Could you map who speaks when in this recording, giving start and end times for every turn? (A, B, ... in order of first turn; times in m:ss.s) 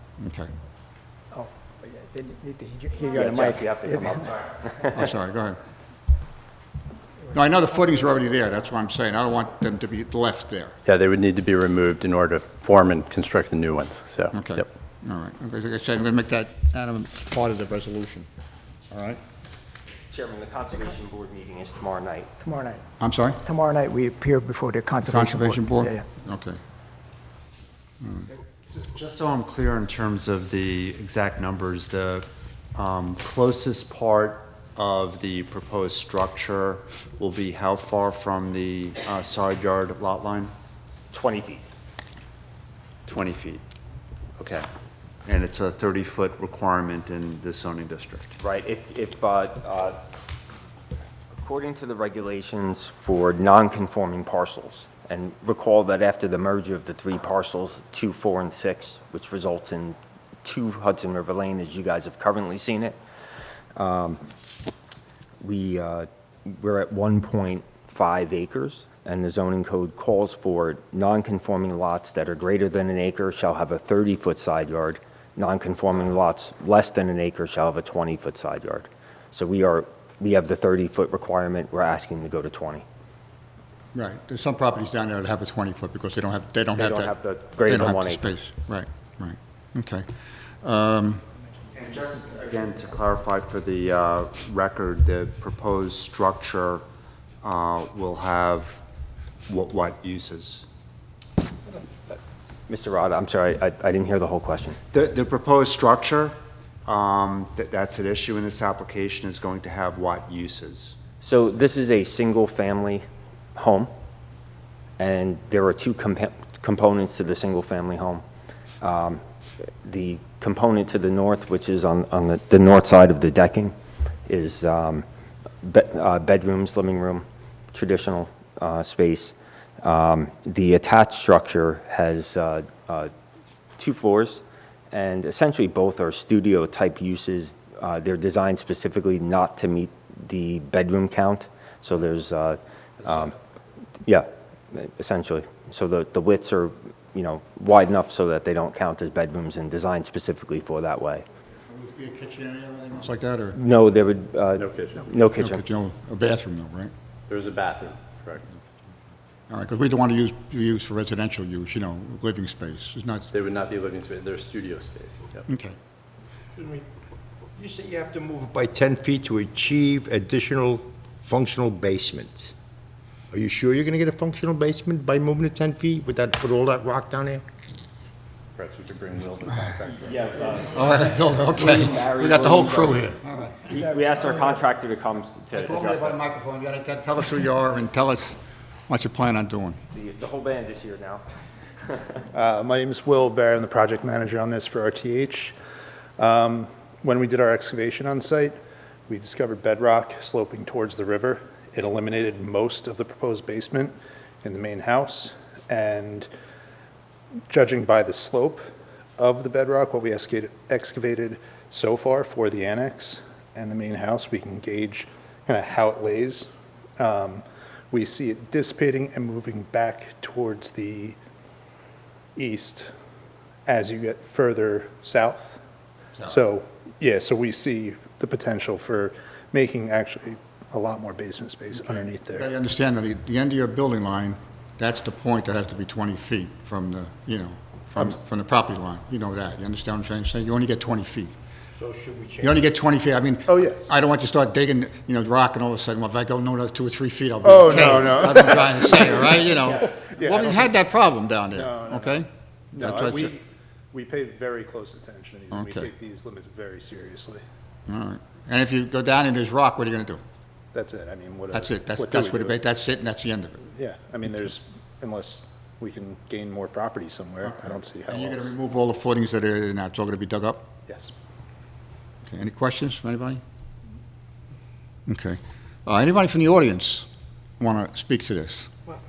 0:00.2-0:00.5 A
0:01.3-0:04.3 B
0:03.1-0:05.0 C
0:04.0-0:04.5 D
0:04.8-0:05.6 A
0:07.3-0:10.7 A
0:10.9-0:14.7 D
0:14.3-0:18.3 A
0:18.9-0:19.2 A
0:20.1-0:22.3 C
0:22.4-0:22.8 B
0:23.0-0:23.4 A
0:23.4-0:26.0 B
0:25.0-0:26.6 A
0:28.0-0:28.3 A
0:28.6-0:40.5 E
0:41.1-0:41.6 C
0:43.1-0:43.6 E
0:44.4-0:44.7 E
0:45.2-0:48.4 E
0:48.4-0:50.0 C
0:51.3-1:03.0 C
1:03.8-1:04.2 C
1:05.4-1:22.8 C
1:23.9-1:30.1 A
1:26.8-1:28.3 C
1:30.6-1:31.2 A
1:31.7-1:36.8 E
1:37.4-1:38.8 E
1:39.5-1:40.7 E
1:42.7-1:44.8 C
1:44.9-1:51.0 E
1:51.2-1:53.0 C
1:53.6-1:53.9 C
1:55.0-1:58.2 C
1:58.8-1:59.2 C
1:59.8-2:03.7 C
2:04.3-2:05.0 C
2:05.6-2:13.1 C
2:13.8-2:23.4 C
2:24.0-2:31.3 C
2:31.7-2:33.6 A
2:33.6-2:35.6 C
2:34.6-2:35.0 D
2:35.2-2:36.9 A
2:37.3-2:38.6 D
2:39.5-2:43.3 A
2:43.3-2:45.5 D
2:45.5-2:45.8 A
2:46.6-2:46.8 F
2:47.6-2:52.5 F
2:53.3-2:57.4 F
2:58.6-3:00.5 D
3:00.0-3:03.1 C
3:00.6-3:03.9 A
3:03.7-3:06.2 C
3:05.5-3:09.8 A
3:09.9-3:11.2 C
3:12.3-3:15.6 G
3:16.2-3:26.3 G
3:27.5-3:28.6 G
3:29.2-3:41.2 G
3:42.4-3:42.9 G
3:43.7-3:45.6 G
3:46.3-3:52.5 G
3:51.8-4:01.3 A
4:01.7-4:02.6 F
4:02.4-4:13.4 A
4:03.5-4:03.9 G
4:07.4-4:10.8 G
4:11.6-4:12.2 G
4:12.8-4:17.4 G
4:15.5-4:15.9 A
4:17.9-4:20.2 A
4:20.7-4:22.6 G
4:21.5-4:23.6 A
4:23.7-4:28.5 G
4:27.4-4:30.7 A
4:30.9-4:31.1 G
4:32.3-4:33.4 A
4:35.1-4:37.1 A
4:37.6-4:38.7 A